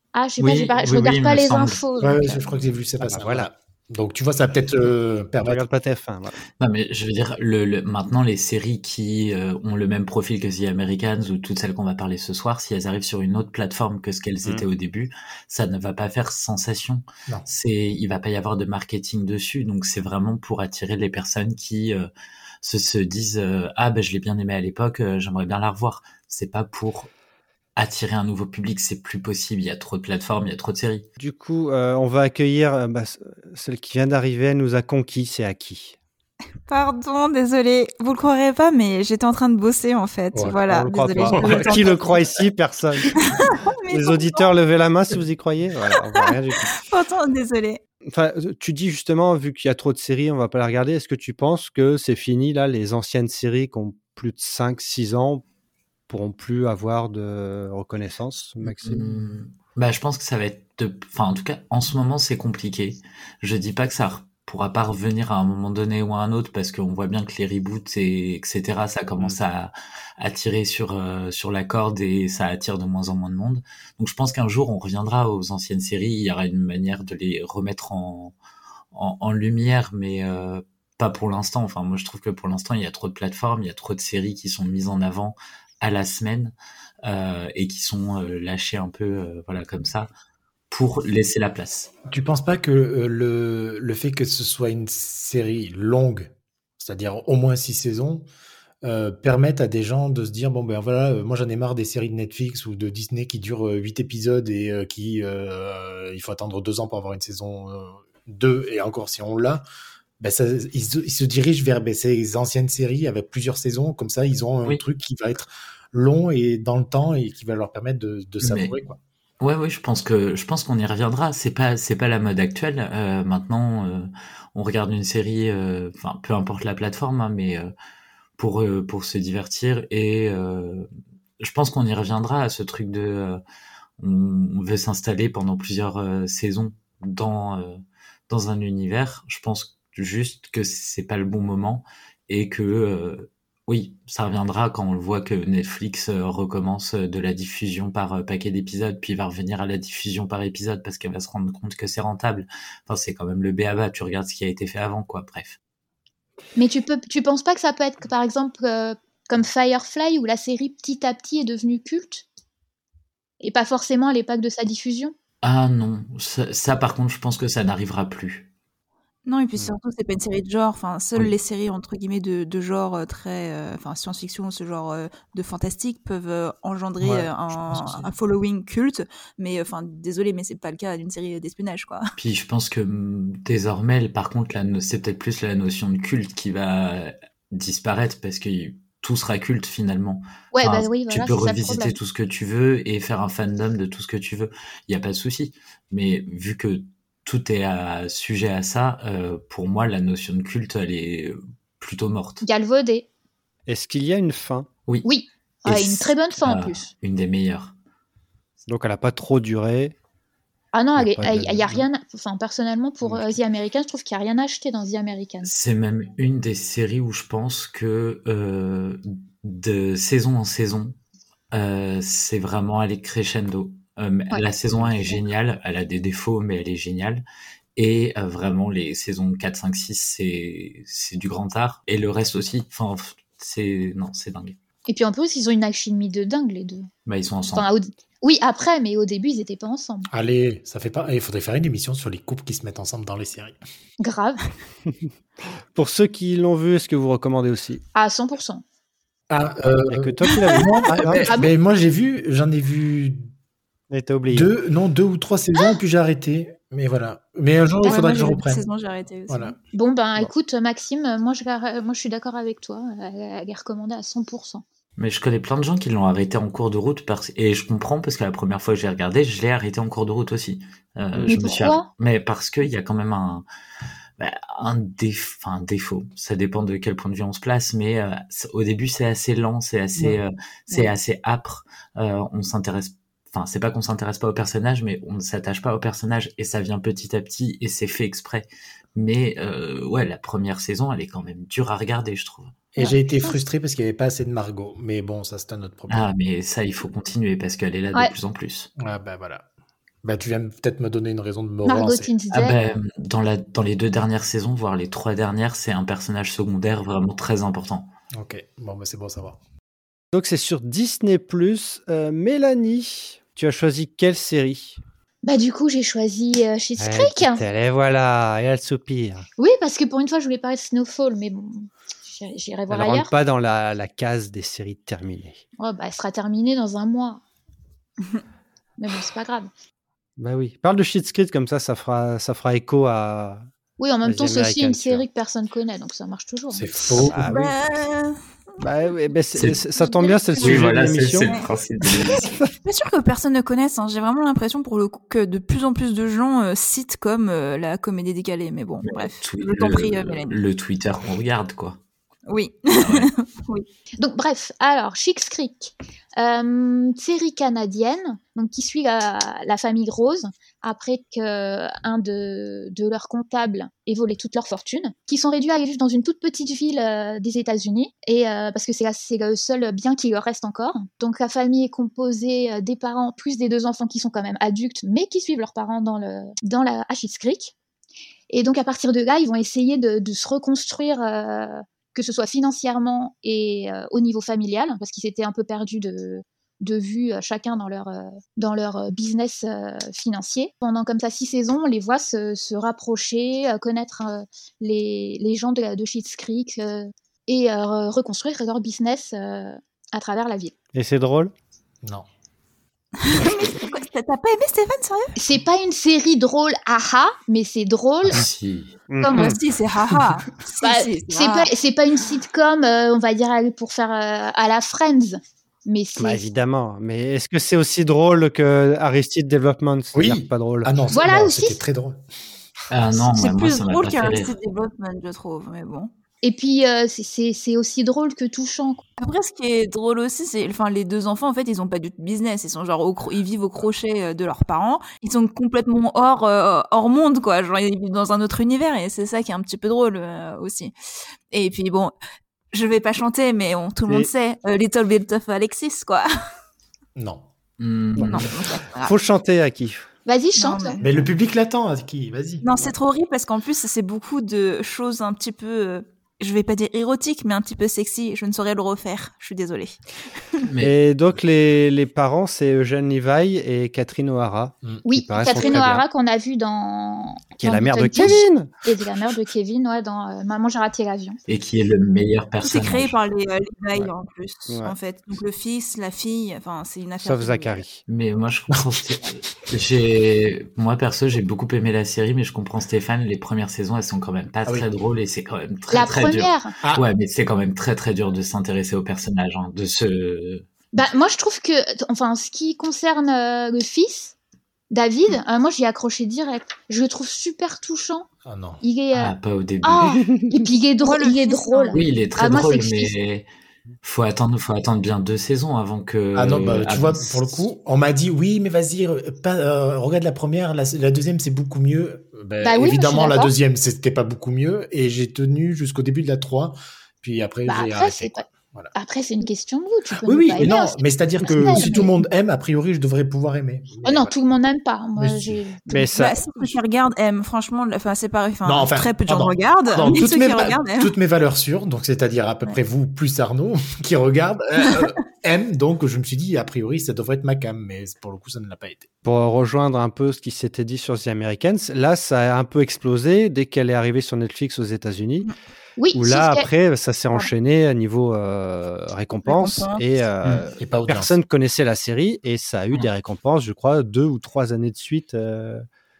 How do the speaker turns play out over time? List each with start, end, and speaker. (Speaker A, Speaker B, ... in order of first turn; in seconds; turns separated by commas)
Speaker A: 0.1-2.6, Speaker B: 0.4-1.8, Speaker C: 2.0-5.6, Speaker D: 3.0-3.5, Speaker D: 5.4-6.4, Speaker B: 6.6-22.1, Speaker B: 22.6-27.1, Speaker B: 27.8-31.1, Speaker D: 31.2-36.0, Speaker E: 36.7-42.2, Speaker C: 40.3-40.6, Speaker D: 40.7-43.2, Speaker C: 41.2-42.0, Speaker E: 43.2-44.5, Speaker D: 43.9-46.8, Speaker E: 46.2-47.8, Speaker D: 48.1-55.4, Speaker D: 56.1-59.0, Speaker B: 58.7-78.3, Speaker B: 78.9-86.5, Speaker B: 87.0-90.1, Speaker B: 90.7-91.9, Speaker C: 92.1-98.2, Speaker C: 98.8-109.6, Speaker C: 110.2-119.0, Speaker B: 118.4-118.7, Speaker B: 119.4-127.7, Speaker B: 128.4-130.9, Speaker B: 131.4-133.4, Speaker B: 134.0-155.6, Speaker A: 156.6-162.2, Speaker A: 163.4-165.1, Speaker B: 165.4-168.5, Speaker E: 169.2-182.1, Speaker C: 177.0-178.1, Speaker B: 182.2-202.4, Speaker A: 190.5-192.0, Speaker A: 202.4-203.1, Speaker D: 203.7-204.7, Speaker A: 205.0-206.9, Speaker B: 205.7-207.7, Speaker D: 208.7-209.9, Speaker A: 210.7-215.5, Speaker D: 210.9-211.8, Speaker D: 213.0-213.4, Speaker B: 215.4-221.0, Speaker B: 221.5-227.2, Speaker B: 227.8-234.6, Speaker A: 234.9-236.9, Speaker B: 237.1-237.7, Speaker A: 237.5-240.1, Speaker C: 240.1-243.6, Speaker A: 244.0-244.4, Speaker D: 245.7-247.8, Speaker A: 247.9-248.6, Speaker C: 249.3-253.3, Speaker D: 249.9-251.3, Speaker A: 251.2-251.5, Speaker D: 253.9-254.5, Speaker C: 254.3-258.6, Speaker E: 257.8-259.6, Speaker C: 259.3-259.5, Speaker A: 259.7-264.6, Speaker B: 265.0-273.4, Speaker A: 271.2-271.9, Speaker B: 274.2-292.7, Speaker C: 292.7-296.1, Speaker A: 292.8-293.4, Speaker B: 295.9-298.7, Speaker C: 298.8-299.4, Speaker C: 300.0-302.1, Speaker A: 301.6-302.6, Speaker B: 302.3-307.9, Speaker C: 308.2-309.4, Speaker D: 310.1-314.8, Speaker A: 315.2-317.4, Speaker D: 316.8-319.3, Speaker A: 319.4-323.1, Speaker D: 322.7-325.4, Speaker A: 325.6-327.2, Speaker A: 328.8-329.5, Speaker D: 330.2-333.4, Speaker A: 333.8-336.7, Speaker D: 334.0-335.0, Speaker C: 336.5-337.5, Speaker D: 337.1-337.5, Speaker E: 337.2-338.2, Speaker D: 338.6-341.3, Speaker B: 339.4-339.6, Speaker E: 339.8-341.5, Speaker B: 340.4-342.4, Speaker E: 342.6-350.3, Speaker B: 348.8-351.8, Speaker E: 352.3-353.6, Speaker B: 352.7-353.1, Speaker A: 354.0-377.5, Speaker A: 378.3-400.5, Speaker D: 400.7-401.3, Speaker E: 403.0-405.1, Speaker A: 405.1-408.2, Speaker B: 408.1-408.8, Speaker D: 408.9-409.4, Speaker A: 409.0-409.3, Speaker E: 409.1-411.5, Speaker A: 410.6-416.2, Speaker D: 416.0-420.7, Speaker C: 419.9-422.0, Speaker A: 420.9-421.6, Speaker B: 422.7-424.3, Speaker E: 423.0-425.9, Speaker A: 426.2-428.8, Speaker E: 429.0-440.7, Speaker E: 441.3-441.9, Speaker E: 442.5-446.1, Speaker C: 446.9-447.3, Speaker B: 447.6-448.3, Speaker D: 448.0-449.9, Speaker E: 448.0-448.9, Speaker A: 450.1-450.8, Speaker E: 450.4-450.9, Speaker C: 450.8-452.4, Speaker E: 452.4-459.8, Speaker B: 460.4-460.8, Speaker D: 460.6-465.8, Speaker A: 464.8-471.2, Speaker D: 467.4-468.5, Speaker B: 471.3-472.9, Speaker E: 472.4-477.6, Speaker D: 474.5-474.7, Speaker D: 477.0-477.8, Speaker B: 477.9-490.4, Speaker A: 485.7-486.5, Speaker A: 490.7-494.1, Speaker A: 494.7-498.1, Speaker C: 498.2-498.6, Speaker A: 498.6-502.9, Speaker B: 498.9-500.1, Speaker E: 500.8-501.8, Speaker B: 501.7-503.2, Speaker B: 503.8-507.4, Speaker C: 506.1-518.7, Speaker A: 512.4-513.3, Speaker A: 517.5-522.0, Speaker C: 520.0-524.1, Speaker E: 521.4-521.7, Speaker A: 523.8-526.0, Speaker C: 525.0-525.4, Speaker D: 525.7-526.2, Speaker E: 525.9-530.9, Speaker C: 528.4-538.9, Speaker D: 539.0-545.3, Speaker A: 545.8-546.5, Speaker D: 545.9-555.6, Speaker E: 549.2-549.8, Speaker C: 550.6-551.1